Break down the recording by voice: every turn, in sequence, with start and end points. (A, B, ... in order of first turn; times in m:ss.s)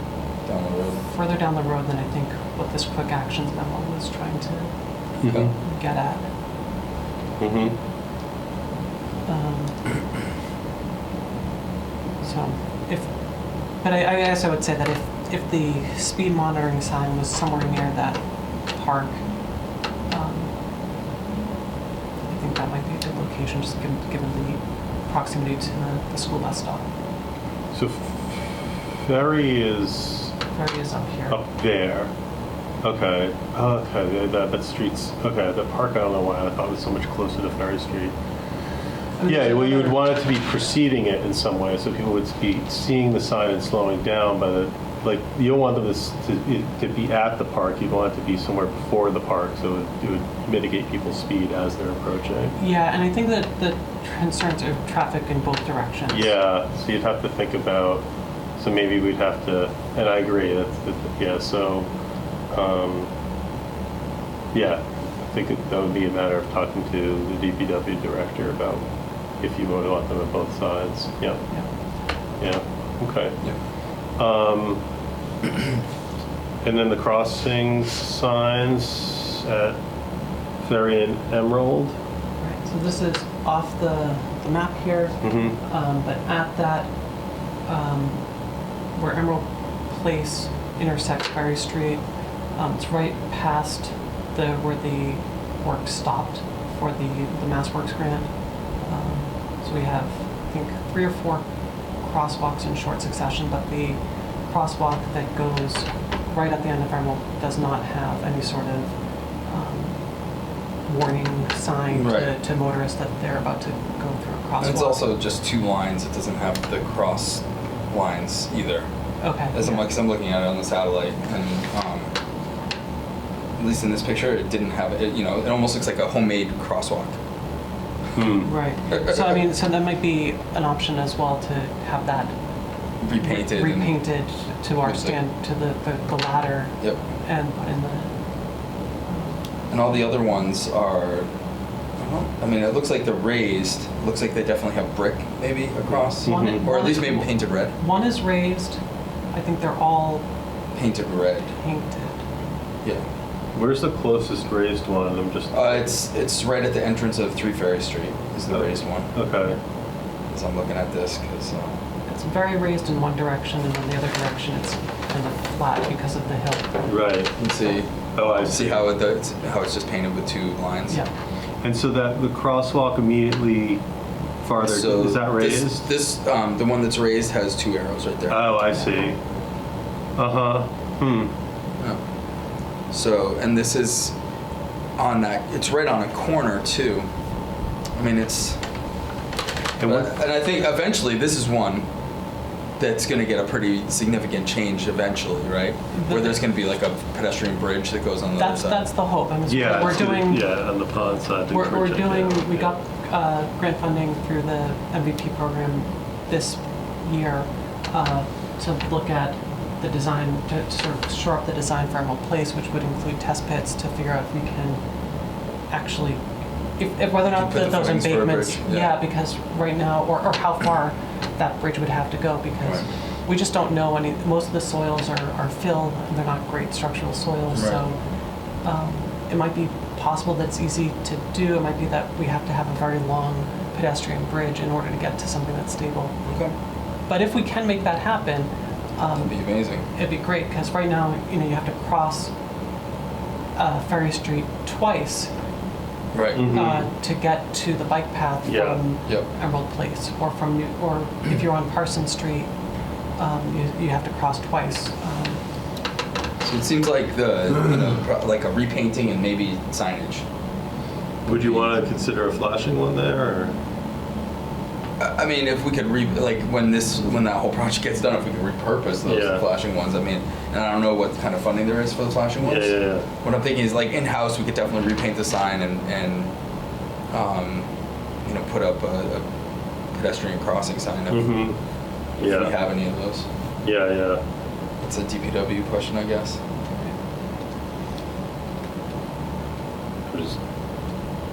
0:00.4-0:01.0 A
0:01.0-0:04.7 B
0:05.2-0:05.5 C
0:05.3-0:06.2 B
0:07.4-0:07.8 C
0:09.2-0:09.8 B
0:12.2-0:13.1 B
0:13.8-0:19.2 B
0:20.1-0:20.5 B
0:22.3-0:26.8 B
0:27.7-0:30.3 C
0:30.5-0:31.4 B
0:31.3-0:32.1 C
0:32.8-0:38.1 C
0:39.2-0:40.0 B
0:39.2-0:52.5 C
0:52.6-0:56.3 B
0:56.1-0:58.0 C
0:58.6-1:01.9 C
1:02.5-1:03.1 C
1:04.5-1:08.8 C
1:09.4-1:11.4 C
1:12.4-1:13.4 C
1:14.2-1:14.8 C
1:16.6-1:19.8 C
1:20.6-1:21.9 C
1:22.4-1:26.9 B
1:25.2-1:25.6 C
1:27.6-1:28.2 B
1:28.9-1:32.0 B
1:32.5-1:38.3 B
1:38.8-1:41.4 B
1:42.0-1:48.9 B
1:49.5-1:50.0 B
1:50.8-1:55.0 B
1:51.9-1:52.3 A
1:54.6-1:58.8 A
1:59.2-1:59.8 B
1:59.5-2:02.1 A
2:03.6-2:07.2 A
2:08.1-2:08.5 C
2:08.4-2:12.3 B
2:08.9-2:09.4 A
2:13.0-2:14.0 A
2:13.2-2:18.1 B
2:14.8-2:15.2 A
2:19.1-2:19.4 B
2:19.7-2:21.3 A
2:22.0-2:27.7 A
2:26.2-2:26.6 C
2:26.2-2:28.8 B
2:29.3-2:30.2 B
2:30.7-2:31.5 A
2:31.5-2:32.2 B
2:33.5-2:35.7 C
2:35.5-2:39.1 A
2:38.5-2:39.6 C
2:40.3-2:41.8 A
2:42.1-2:46.8 B
2:46.9-2:47.3 C
2:47.4-2:51.0 A
2:48.1-2:48.9 C
2:51.6-2:53.8 C
2:54.4-2:55.9 C
2:54.6-2:58.5 A
2:58.3-2:59.2 C
3:00.2-3:01.3 C
3:02.9-3:04.1 A
3:05.0-3:07.0 A
3:08.0-3:08.6 A
3:09.8-3:10.1 C
3:09.8-3:11.9 A
3:12.8-3:18.8 A
3:15.9-3:16.4 B
3:18.4-3:20.4 B
3:19.5-3:22.7 C
3:21.5-3:34.8 B
3:35.7-3:36.2 B
3:36.8-3:48.0 B
3:37.3-3:38.9 A
3:47.5-3:47.8 A
3:48.6-3:56.2 B
3:56.2-3:56.5 A
3:57.1-3:59.3 B
3:59.2-3:59.8 A
3:59.9-4:02.3 B
4:03.6-4:05.3 B
4:06.1-4:06.5 A
4:06.4-4:06.9 C
4:06.5-4:12.5 B
4:08.4-4:08.8 C
4:13.2-4:15.4 B
4:16.4-4:20.2 A
4:21.2-4:23.5 C
4:21.3-4:21.7 A
4:25.0-4:36.3 A
4:29.0-4:29.4 C
4:32.4-4:33.1 C
4:37.1-4:37.7 A
4:38.2-4:39.2 A
4:39.9-4:41.3 A
4:41.1-4:41.6 C
4:42.2-4:42.5 C
4:42.2-4:43.3 A
4:43.6-4:44.2 C
4:44.8-4:46.4 A
4:50.1-4:50.4 C